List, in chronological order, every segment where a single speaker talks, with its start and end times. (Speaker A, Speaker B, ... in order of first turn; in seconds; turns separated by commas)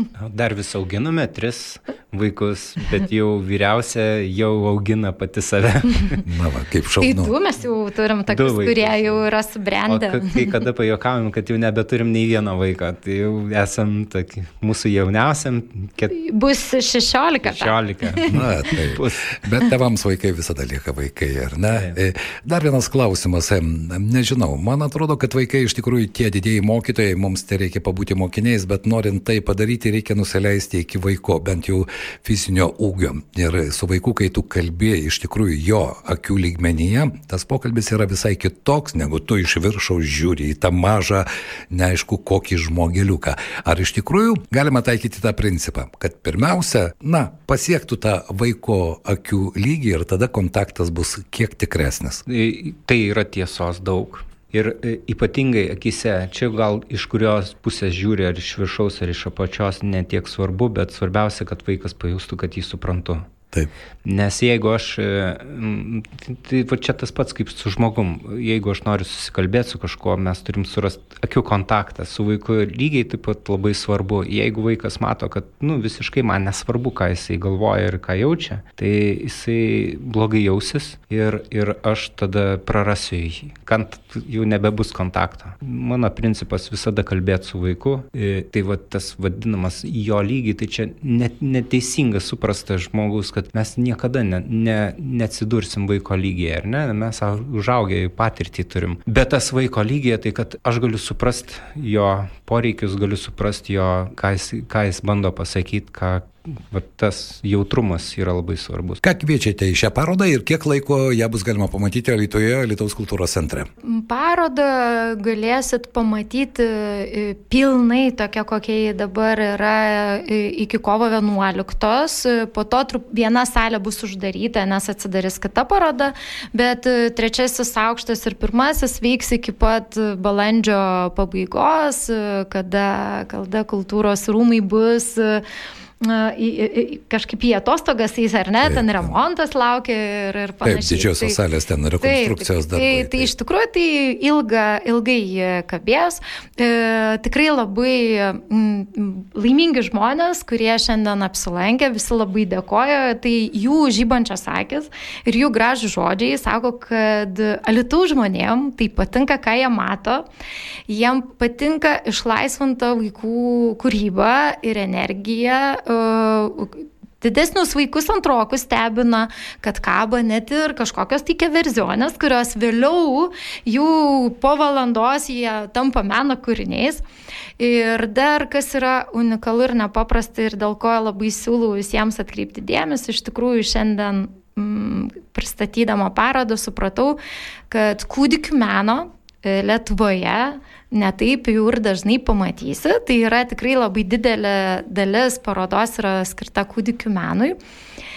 Speaker A: 0.1-6.2, Speaker B: 6.2-7.3, Speaker C: 7.0-10.4, Speaker A: 8.3-9.2, Speaker A: 9.9-16.1, Speaker C: 16.1-18.3, Speaker A: 17.4-19.3, Speaker B: 18.3-52.2, Speaker A: 52.2-63.3, Speaker A: 64.0-109.0, Speaker B: 109.0-113.7, Speaker C: 113.8-135.4, Speaker C: 136.0-141.4, Speaker B: 138.6-138.9, Speaker B: 140.6-143.3, Speaker C: 142.0-160.2, Speaker C: 160.9-177.0, Speaker C: 177.6-187.2, Speaker C: 187.7-197.6